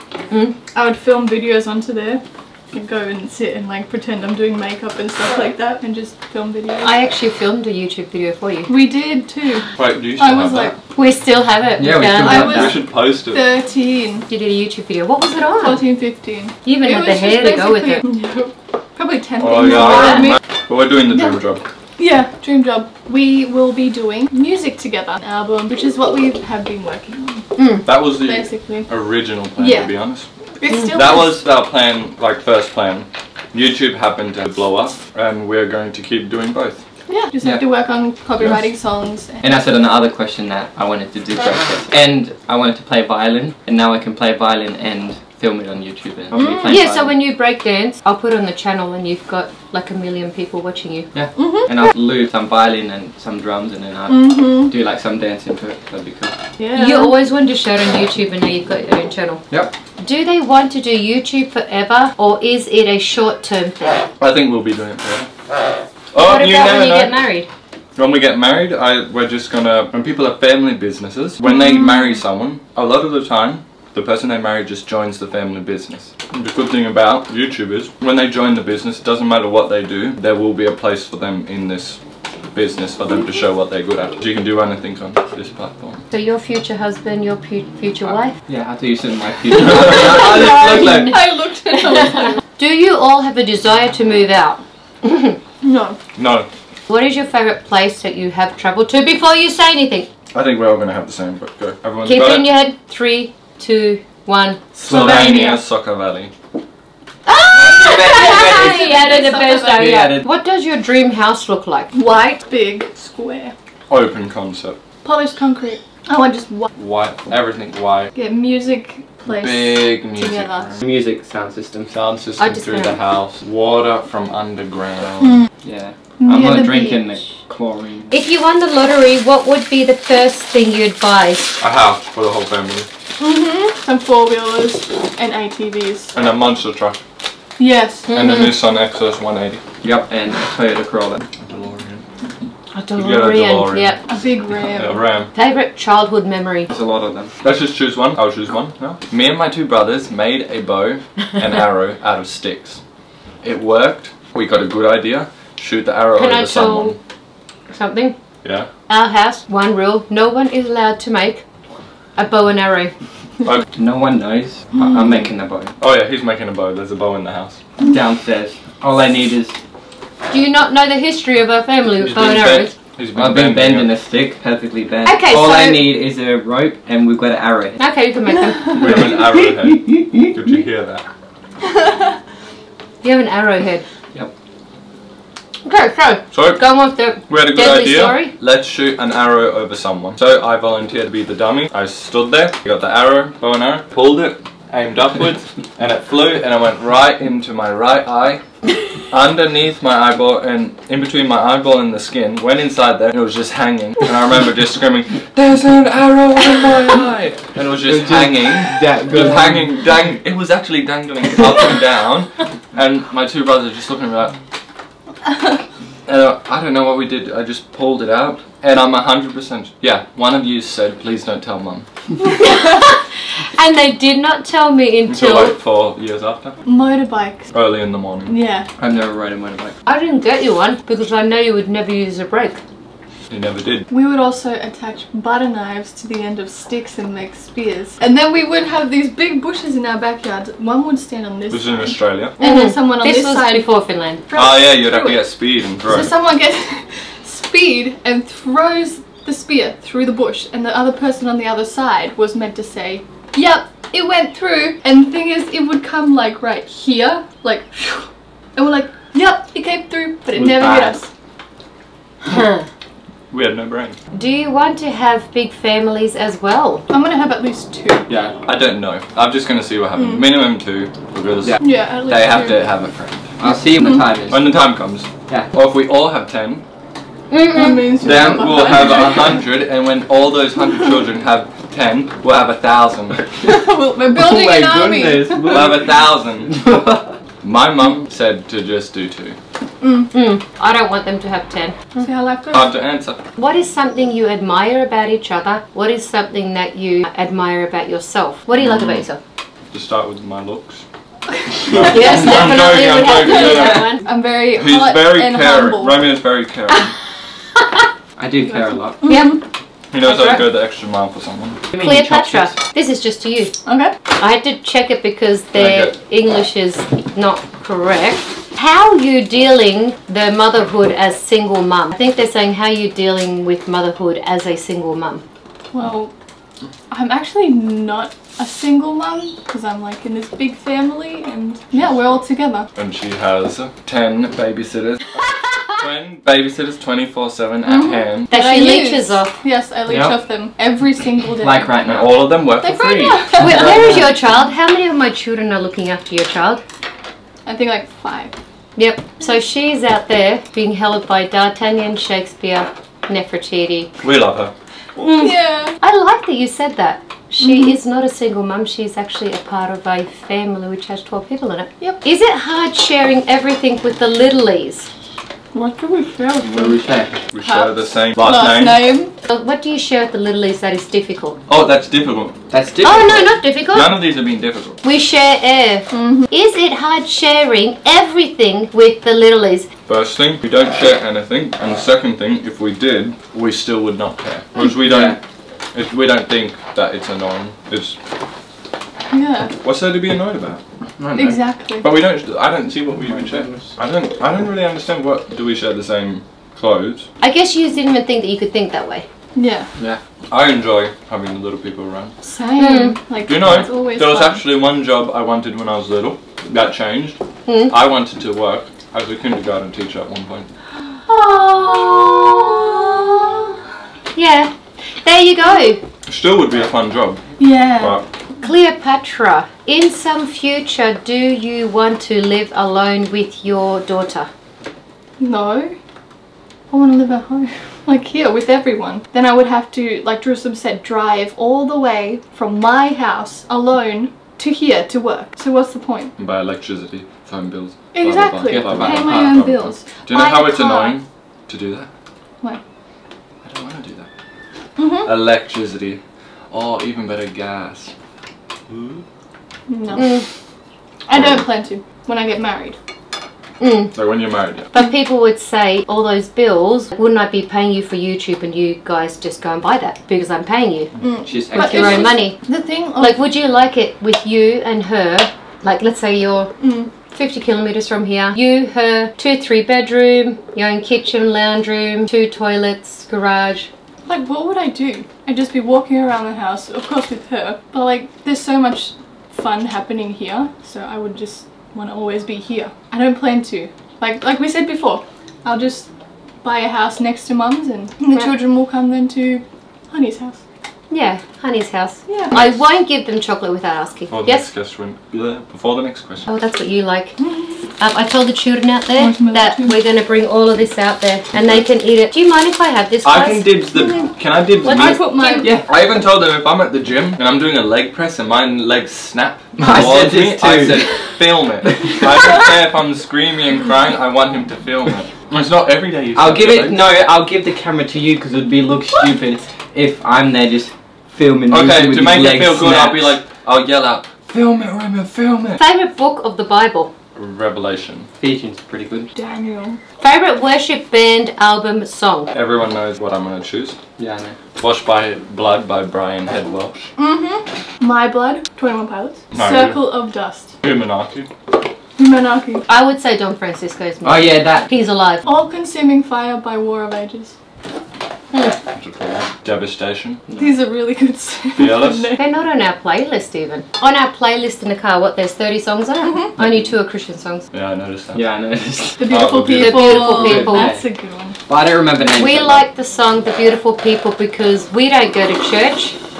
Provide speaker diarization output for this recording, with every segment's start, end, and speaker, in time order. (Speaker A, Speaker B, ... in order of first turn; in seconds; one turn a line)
Speaker A: 0.3-0.6
Speaker B: 0.7-7.0
Speaker A: 6.8-8.7
Speaker B: 8.7-10.7
Speaker C: 9.8-10.8
Speaker A: 10.9-12.7
Speaker D: 11.8-12.8
Speaker B: 12.2-14.3
Speaker C: 12.4-13.4
Speaker A: 14.3-15.8
Speaker B: 15.6-20.4
Speaker A: 16.6-18.0
Speaker C: 19.4-21.6
Speaker A: 19.7-20.3
Speaker B: 21.1-21.4
Speaker B: 22.0-27.5
Speaker A: 27.6-27.9
Speaker C: 27.9-30.3
Speaker B: 28.1-28.9
Speaker B: 29.6-29.9
Speaker B: 30.6-31.4
Speaker C: 30.8-36.8
Speaker B: 37.1-39.5
Speaker C: 38.4-38.7
Speaker D: 39.4-47.2
Speaker B: 46.3-46.8
Speaker A: 46.6-51.1
Speaker D: 51.1-56.4
Speaker B: 51.4-51.7
Speaker B: 54.1-54.7
Speaker B: 56.6-57.1
Speaker A: 56.7-59.4
Speaker A: 60.0-64.1
Speaker C: 64.2-65.3
Speaker C: 66.1-67.2
Speaker A: 66.2-67.5
Speaker C: 68.0-82.0
Speaker B: 71.5-71.9
Speaker C: 82.5-86.0
Speaker A: 86.1-88.3
Speaker D: 88.5-91.2
Speaker C: 89.6-90.7
Speaker B: 90.0-92.4
Speaker A: 90.0-91.2
Speaker A: 91.7-95.4
Speaker B: 95.6-96.0
Speaker C: 96.2-96.5
Speaker A: 96.9-100.1
Speaker C: 100.3-102.5
Speaker A: 102.0-105.5
Speaker C: 104.8-106.3
Speaker B: 104.9-105.6
Speaker A: 107.3-111.9
Speaker D: 107.6-108.9
Speaker B: 107.9-109.9
Speaker D: 109.7-110.3
Speaker B: 111.9-113.5
Speaker C: 113.9-114.8
Speaker B: 115.0-116.7
Speaker C: 116.8-118.1
Speaker B: 118.2-120.8
Speaker C: 119.3-120.8
Speaker D: 120.8-121.9
Speaker C: 121.9-125.4
Speaker A: 122.4-123.0
Speaker B: 125.2-125.5
Speaker D: 125.6-128.1
Speaker B: 126.2-127.2
Speaker A: 128.1-131.6
Speaker C: 131.6-132.9
Speaker B: 133.2-136.2
Speaker C: 136.1-137.0
Speaker B: 137.6-138.2
Speaker A: 138.1-138.6
Speaker C: 138.1-139.6
Speaker D: 139.8-141.2
Speaker C: 141.4-142.1
Speaker A: 142.7-144.0
Speaker C: 142.9-144.0
Speaker B: 144.1-145.0
Speaker C: 144.6-145.3
Speaker A: 145.3-146.7
Speaker D: 146.7-147.3
Speaker C: 147.4-152.8
Speaker C: 153.4-157.0
Speaker A: 156.2-157.0
Speaker A: 157.7-158.2
Speaker C: 158.4-158.7
Speaker A: 158.9-161.4
Speaker A: 162.2-162.9
Speaker D: 163.8-165.7
Speaker B: 164.8-165.2
Speaker C: 165.8-167.6
Speaker D: 167.8-169.6
Speaker A: 170.3-172.8
Speaker C: 172.0-173.9
Speaker D: 173.2-177.8
Speaker A: 175.1-175.9
Speaker A: 177.8-179.0
Speaker C: 178.8-181.1
Speaker D: 179.6-180.1
Speaker A: 183.0-183.8
Speaker A: 185.6-188.3
Speaker C: 186.3-186.6
Speaker C: 187.3-198.4
Speaker C: 199.0-214.4
Speaker D: 207.8-209.7
Speaker B: 215.2-215.6
Speaker C: 216.1-221.9
Speaker A: 222.4-225.6
Speaker C: 225.1-226.6
Speaker B: 226.7-227.5
Speaker C: 227.5-228.3
Speaker B: 228.3-228.7
Speaker D: 228.8-229.8
Speaker A: 229.9-232.6
Speaker C: 233.3-233.9
Speaker B: 233.9-243.7
Speaker C: 241.5-242.4
Speaker A: 242.4-244.2
Speaker B: 244.3-245.2
Speaker C: 244.3-246.1
Speaker B: 245.8-261.1
Speaker D: 260.4-261.0
Speaker A: 262.2-262.7
Speaker C: 263.3-264.0
Speaker A: 264.1-266.9
Speaker B: 266.9-268.1
Speaker D: 268.1-268.3
Speaker C: 268.5-273.3
Speaker B: 270.0-270.3
Speaker B: 271.6-272.7
Speaker D: 273.4-274.5
Speaker B: 273.5-274.1
Speaker C: 274.3-276.6
Speaker A: 277.3-278.2
Speaker B: 277.5-279.4
Speaker C: 278.0-283.2
Speaker B: 283.4-285.8
Speaker D: 284.1-287.1
Speaker C: 285.5-286.6
Speaker C: 287.4-289.4
Speaker B: 289.8-290.1
Speaker A: 290.1-291.8
Speaker B: 292.0-292.7
Speaker C: 292.5-293.2
Speaker A: 293.4-299.2
Speaker C: 298.6-299.1
Speaker C: 299.7-300.8
Speaker B: 301.5-302.4
Speaker C: 301.6-303.9
Speaker A: 301.8-304.1
Speaker B: 303.1-306.0
Speaker C: 304.5-306.9
Speaker D: 308.2-309.3
Speaker B: 309.0-309.4
Speaker A: 309.1-309.4
Speaker C: 309.9-311.7
Speaker A: 310.0-310.4
Speaker D: 311.7-312.5
Speaker A: 311.8-325.2
Speaker B: 313.6-314.0
Speaker C: 315.6-315.9
Speaker B: 325.7-326.1
Speaker B: 326.9-332.7
Speaker C: 331.7-332.2
Speaker C: 332.8-335.2
Speaker C: 335.7-338.3
Speaker B: 337.7-341.8
Speaker A: 338.3-339.4
Speaker D: 339.9-340.2
Speaker D: 341.4-342.3
Speaker C: 341.9-343.4
Speaker B: 342.6-343.9
Speaker D: 343.4-344.1
Speaker A: 343.4-346.6
Speaker B: 347.4-348.4
Speaker A: 348.8-353.9
Speaker C: 354.0-354.5
Speaker A: 355.0-364.9
Speaker B: 355.2-355.8
Speaker B: 357.4-357.8
Speaker B: 365.5-366.9
Speaker D: 366.4-367.2
Speaker C: 367.3-368.9
Speaker B: 367.4-369.1
Speaker A: 369.2-371.4
Speaker C: 371.5-372.4
Speaker D: 372.5-373.2
Speaker A: 372.8-374.0
Speaker C: 372.9-374.8
Speaker A: 374.8-379.7
Speaker B: 375.9-376.3
Speaker C: 379.9-385.2
Speaker D: 384.8-385.2
Speaker C: 385.7-388.0
Speaker B: 389.1-389.6
Speaker C: 389.6-390.6
Speaker D: 391.0-391.4
Speaker B: 391.1-391.9
Speaker C: 391.8-397.1
Speaker D: 393.1-393.7
Speaker A: 397.2-399.1
Speaker B: 399.4-399.7
Speaker C: 400.3-402.1
Speaker B: 402.2-404.4
Speaker A: 402.6-403.0
Speaker C: 403.3-410.5
Speaker A: 407.5-407.7
Speaker A: 411.1-413.6
Speaker A: 414.1-414.5
Speaker A: 415.0-415.8
Speaker C: 416.1-417.3
Speaker B: 417.4-418.0
Speaker C: 417.8-418.1
Speaker A: 418.4-424.3
Speaker B: 425.2-425.8
Speaker B: 426.7-436.1
Speaker C: 436.2-441.9
Speaker B: 437.9-441.0
Speaker D: 438.4-439.6
Speaker C: 443.4-444.1
Speaker B: 444.8-445.1
Speaker C: 445.0-446.0
Speaker C: 446.5-447.9
Speaker C: 448.7-449.0
Speaker B: 449.7-450.2
Speaker A: 449.9-450.3
Speaker B: 451.1-452.8
Speaker C: 451.1-451.5
Speaker A: 453.6-453.9
Speaker C: 453.9-454.7
Speaker A: 454.7-460.9
Speaker B: 461.0-463.2
Speaker D: 461.2-462.2
Speaker A: 461.5-462.4
Speaker A: 463.0-466.5
Speaker B: 466.6-466.9
Speaker A: 467.1-473.7
Speaker B: 474.1-485.9
Speaker B: 486.4-490.4
Speaker A: 490.9-494.5
Speaker B: 492.1-492.3
Speaker C: 494.1-496.3
Speaker A: 496.3-497.2
Speaker B: 497.2-497.6
Speaker A: 497.8-503.5
Speaker B: 499.0-499.8
Speaker C: 501.4-501.7
Speaker C: 503.0-505.0
Speaker B: 503.8-504.1
Speaker B: 504.6-505.6
Speaker A: 505.1-505.5
Speaker D: 505.4-505.7
Speaker C: 505.6-516.8
Speaker D: 509.6-511.1
Speaker D: 511.7-512.0
Speaker D: 516.1-523.1
Speaker C: 521.5-525.6
Speaker A: 525.6-526.9
Speaker C: 527.1-528.1
Speaker D: 528.2-529.1
Speaker B: 529.1-529.8
Speaker A: 530.0-532.3
Speaker C: 532.3-533.8
Speaker D: 534.0-534.4
Speaker C: 534.6-536.9
Speaker B: 537.0-540.6
Speaker C: 539.3-539.9
Speaker C: 540.6-541.3
Speaker B: 542.0-542.7
Speaker A: 542.7-545.2
Speaker D: 544.0-544.7
Speaker B: 545.2-547.3
Speaker C: 548.6-550.2
Speaker D: 550.3-550.6
Speaker B: 550.4-552.2
Speaker C: 551.5-552.1
Speaker A: 552.2-557.5
Speaker B: 556.0-556.3
Speaker D: 556.4-556.8
Speaker C: 557.5-558.2
Speaker D: 558.1-559.3
Speaker B: 559.0-561.4
Speaker C: 559.1-560.0
Speaker A: 559.6-560.8
Speaker D: 560.0-560.9
Speaker D: 561.5-562.6
Speaker A: 562.1-566.0